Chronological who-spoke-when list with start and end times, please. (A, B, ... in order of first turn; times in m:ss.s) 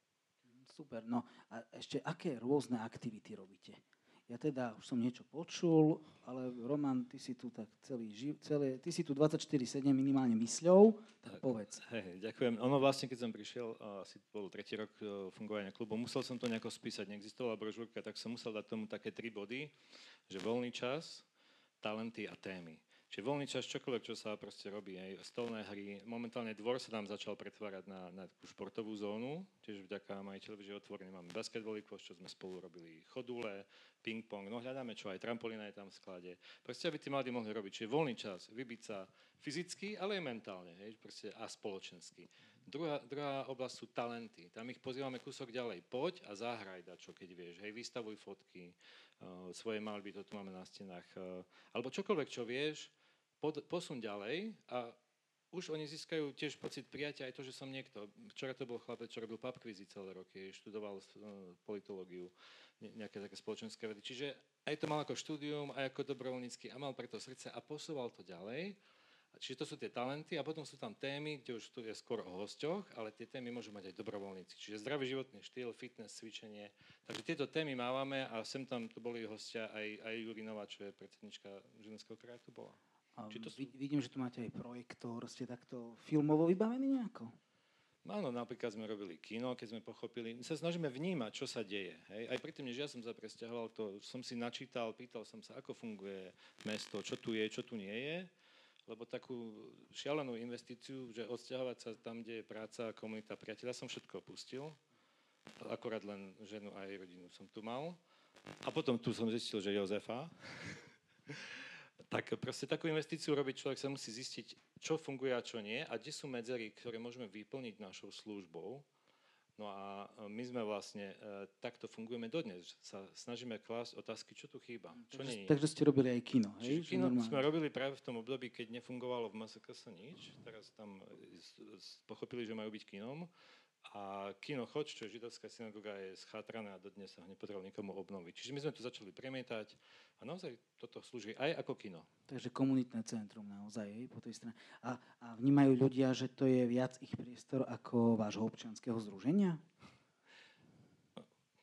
0:00.5-0:11.8 A
0:11.8-0:19.7 B
0:20.3-0:21.2 B
0:21.8-0:55.0 B
0:55.5-1:08.8 B
1:09.4-1:22.8 B
1:23.2-1:27.4 A
1:23.3-1:23.7 B
1:28.0-1:38.3 B
1:38.9-1:44.8 B
1:45.6-1:48.0 B
1:48.6-1:58.8 B
1:59.6-2:05.5 B
2:05.0-2:07.5 A
2:06.6-2:13.3 B
2:13.8-2:22.1 B
2:22.3-2:29.6 A